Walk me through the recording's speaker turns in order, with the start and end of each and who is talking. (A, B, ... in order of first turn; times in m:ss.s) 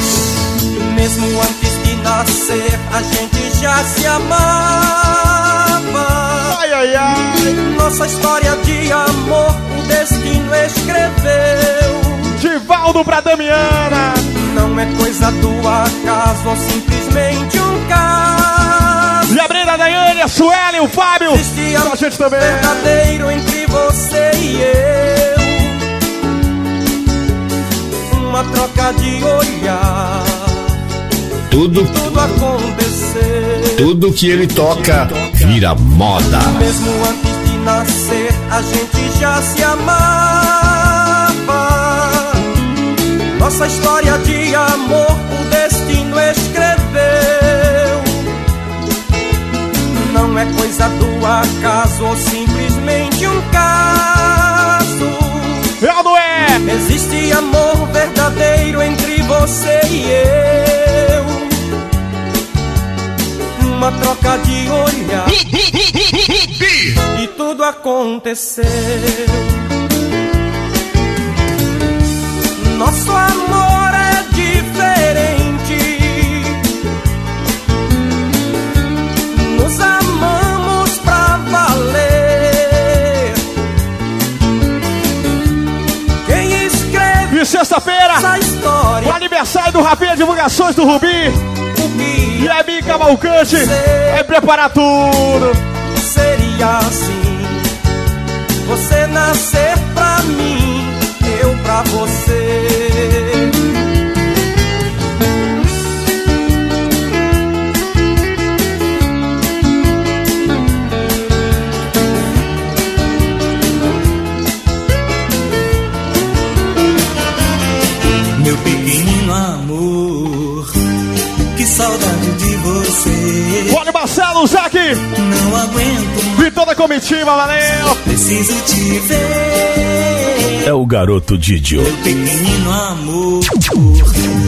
0:00.7-0:06.6 A
0:06.5-0:07.5 B
0:07.4-0:12.3 A
0:12.4-0:14.2 B
0:14.4-0:19.3 A
0:19.3-0:22.8 B
0:21.3-0:25.8 A
0:28.1-0:30.6 A
0:31.5-0:32.4 C
0:31.9-0:33.9 A
0:33.8-0:36.6 C
0:34.6-0:35.3 A
0:36.4-0:42.4 A
0:43.4-0:48.2 A
0:49.9-0:55.7 A
0:55.8-0:56.6 B
0:56.6-1:01.6 A
1:03.6-1:05.4 A
1:07.1-1:09.6 A
1:12.6-1:16.6 A
1:19.3-1:23.4 A
1:26.2-1:27.4 A
1:27.3-1:28.3 B
1:28.1-1:29.2 A
1:29.0-1:31.4 B
1:31.7-1:34.2 A
1:32.4-1:35.6 B
1:36.0-1:37.6 A
1:38.6-1:43.5 A
1:58.4-2:00.7 D
2:01.6-2:03.8 D
2:03.7-2:05.0 B
2:05.2-2:06.5 D
2:06.4-2:08.0 B
2:08.1-2:10.4 D
2:10.6-2:11.9 C
2:11.7-2:14.1 D